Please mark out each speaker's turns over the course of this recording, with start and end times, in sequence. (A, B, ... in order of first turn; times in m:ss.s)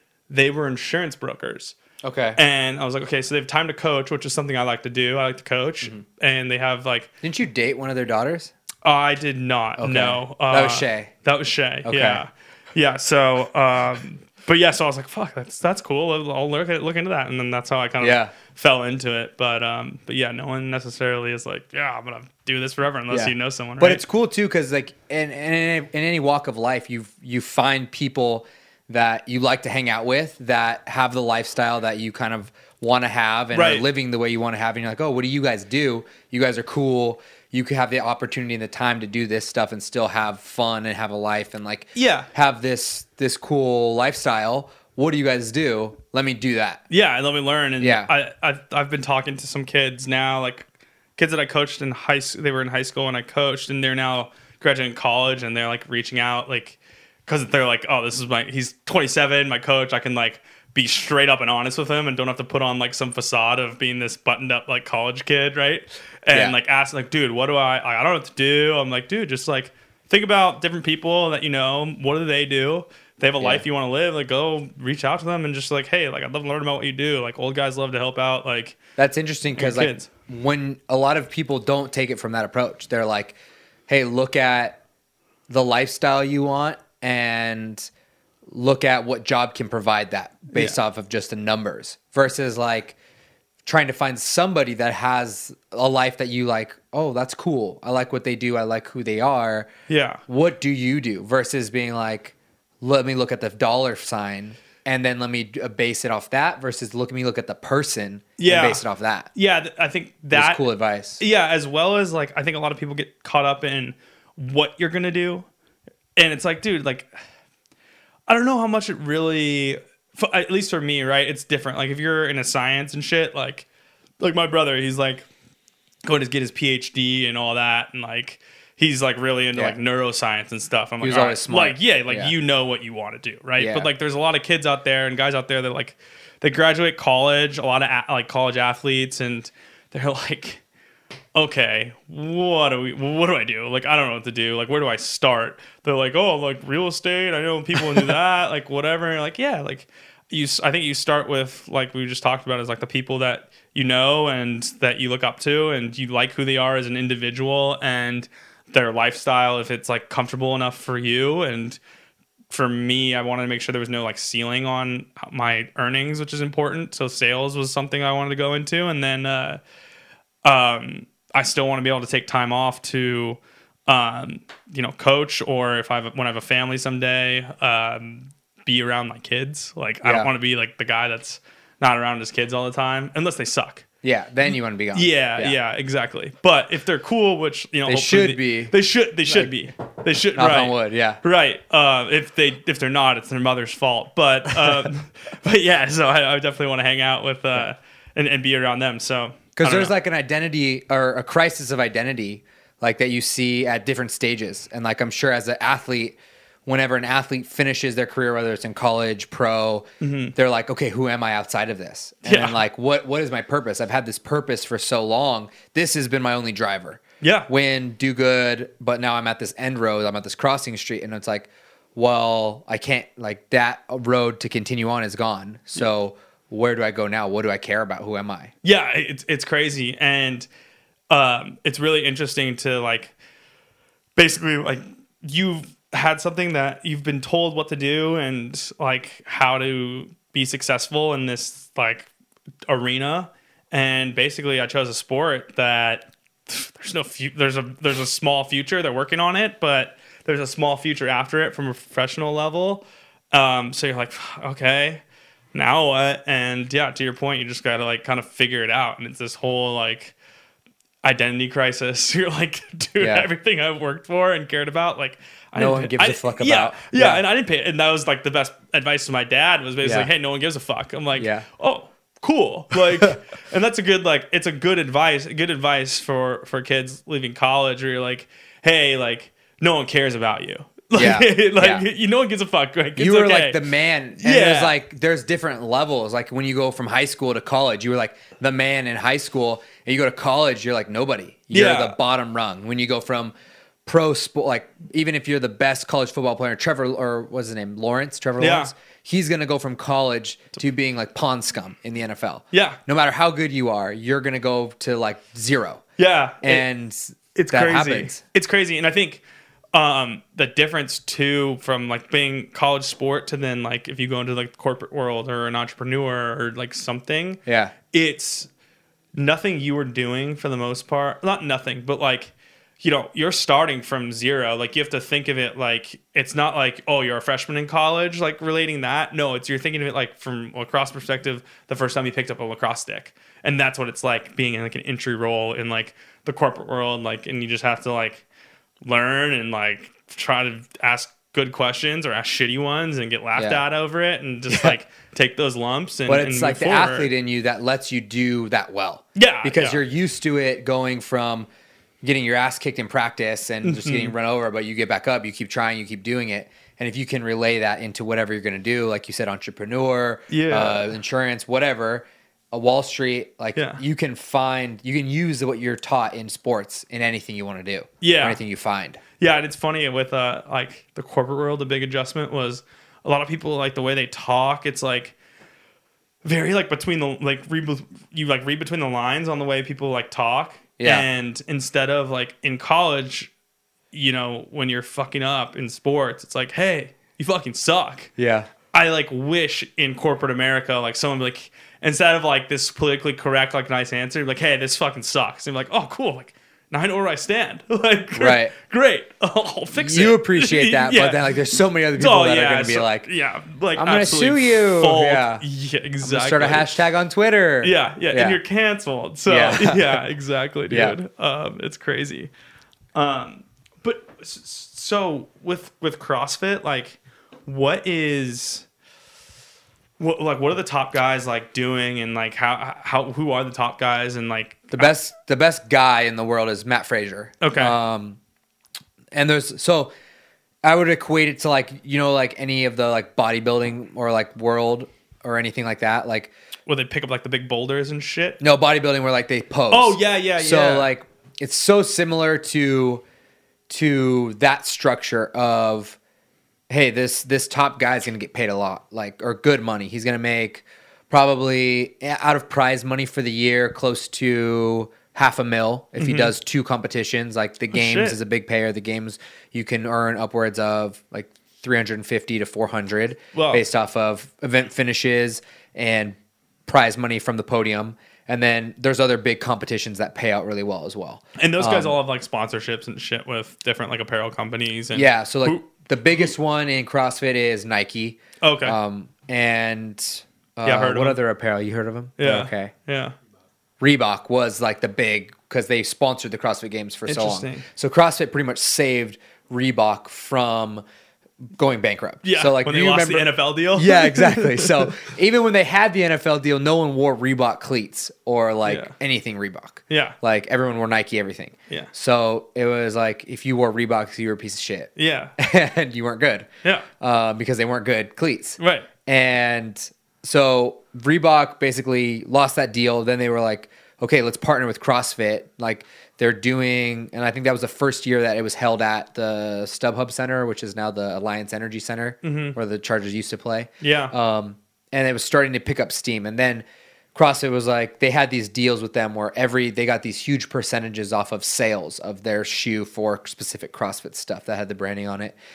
0:00.3-0:01.8 A
0:02.0-0:02.4 B
0:02.4-0:07.1 A
0:07.2-0:08.5 B
0:08.8-0:24.0 A
0:09.8-0:11.1 B
0:11.8-0:12.2 B
0:18.0-0:18.3 B
0:23.1-0:46.8 B
0:33.5-0:33.8 A
0:41.9-0:42.3 A
0:46.9-1:18.8 A
0:47.8-0:48.1 B
1:06.3-1:06.6 B
1:13.4-1:13.6 B
1:19.0-1:23.4 B
1:19.6-1:20.1 A
1:23.9-1:24.8 B
1:25.5-1:27.9 B
1:28.5-1:33.0 B
1:33.6-1:39.7 B
1:39.9-1:40.2 A
1:40.2-1:49.3 B
1:48.4-1:48.8 A
1:49.3-1:50.6 A
1:50.3-1:51.2 B
1:51.2-1:55.5 A
1:56.2-1:57.1 A
1:58.3-2:03.6 A
2:04.2-2:05.3 A
2:06.0-2:20.6 A
2:11.0-2:12.3 B
2:13.6-2:13.9 B
2:21.3-2:41.8 A
2:42.5-2:49.6 A
2:50.4-3:03.8 A
3:00.0-3:00.3 B
3:04.0-3:05.6 B
3:04.9-3:19.9 A
3:07.8-3:08.7 B
3:09.2-3:09.6 B
3:10.3-3:11.2 B
3:19.6-3:48.5 B
3:30.0-3:30.3 A
3:32.2-3:32.6 A
3:37.2-3:37.5 A
3:48.6-3:50.5 A
3:51.1-3:53.1 A
3:54.2-4:02.1 A
4:02.7-4:15.0 A
4:15.5-4:20.1 A
4:21.0-4:43.6 A
4:23.0-4:23.2 B
4:25.5-4:27.2 B
4:29.8-4:30.1 B
4:31.2-4:31.4 B
4:40.9-4:41.9 B
4:43.0-4:53.3 B
4:44.2-4:44.7 A
4:51.5-4:52.0 A
4:53.8-5:05.8 B
4:58.4-4:58.7 A
5:02.5-5:02.8 A
5:06.0-5:06.6 A
5:06.4-5:08.2 B
5:07.3-5:09.2 A
5:09.7-5:18.5 A
5:17.4-5:17.7 B
5:19.1-5:38.2 A
5:38.8-5:47.1 A
5:43.4-5:43.6 B
5:44.5-5:44.8 B
5:46.1-5:51.5 B
5:49.2-5:49.8 A
5:52.0-6:09.0 B
5:53.6-5:54.1 A
6:00.3-6:00.9 A
6:03.6-6:03.8 A
6:08.0-6:08.4 A
6:09.2-6:15.2 A
6:16.2-6:23.3 A
6:20.8-6:21.1 B
6:23.9-6:28.1 A
6:28.2-6:28.5 B
6:28.7-6:41.3 A
6:38.1-6:38.5 B
6:39.7-6:43.1 B
6:41.9-6:46.7 A
6:43.7-6:45.4 B
6:46.0-6:48.4 B
6:47.6-6:52.3 A
6:49.3-6:50.0 B
6:50.7-6:51.0 B
6:52.9-6:58.6 A
7:00.0-7:04.9 A
7:04.7-7:08.2 B
7:07.4-7:07.8 A
7:09.1-7:09.9 B
7:10.6-7:16.3 B
7:16.7-7:18.4 A
7:18.4-7:23.0 B
7:19.7-7:20.9 A
7:23.7-7:26.0 B
7:26.7-7:52.0 B
7:36.0-7:36.3 A
7:37.7-7:38.2 A
7:43.3-7:43.6 A
7:51.4-7:55.7 A
7:54.9-8:02.7 B
7:58.4-7:58.8 A
8:00.6-8:01.2 A
8:02.2-8:03.1 A
8:03.8-8:10.8 B
8:07.1-8:07.6 A
8:11.5-8:26.5 B
8:12.2-8:15.1 A
8:18.6-8:18.9 A
8:19.9-8:20.2 A
8:25.0-8:25.3 A
8:27.0-8:55.4 B
8:28.6-8:28.9 A
8:42.2-8:42.6 A
8:43.8-8:44.1 A